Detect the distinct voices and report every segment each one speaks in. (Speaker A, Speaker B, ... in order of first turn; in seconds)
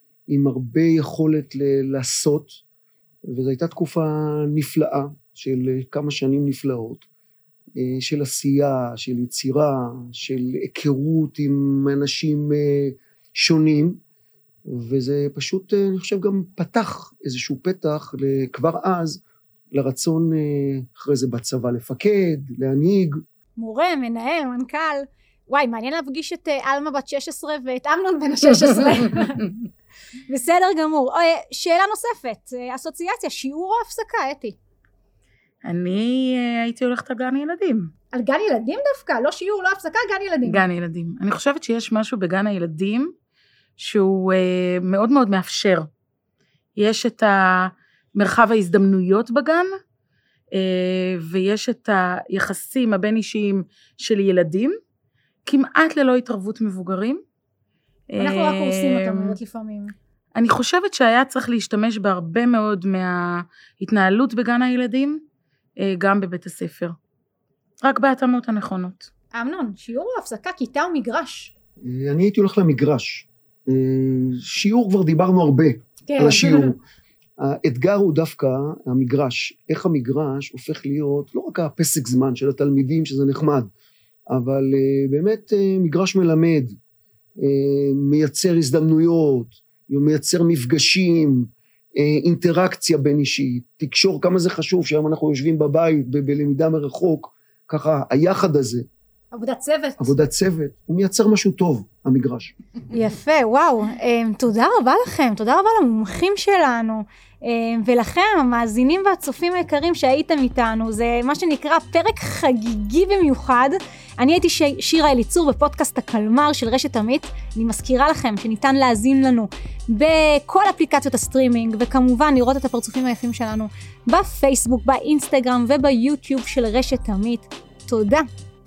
Speaker A: 0.3-2.6, 3.2-7.1, 7.8-14.0, 14.7-23.2, 71.8-76.8, 77.4-83.7, 84.3-86.8, 87.4-98.9, 100.0-102.5
Speaker B: 23.6-29.5, 30.3-34.6, 38.1-40.6, 58.2-59.9, 69.3-71.5, 76.1-76.7, 99.3-100.1, 102.9-128.3
Speaker C: 35.6-37.9, 40.4-43.1, 43.8-45.9, 46.8-49.7, 50.5-54.8, 55.5-57.2, 58.1-59.4, 60.4-65.2, 65.8-67.0, 67.8-69.1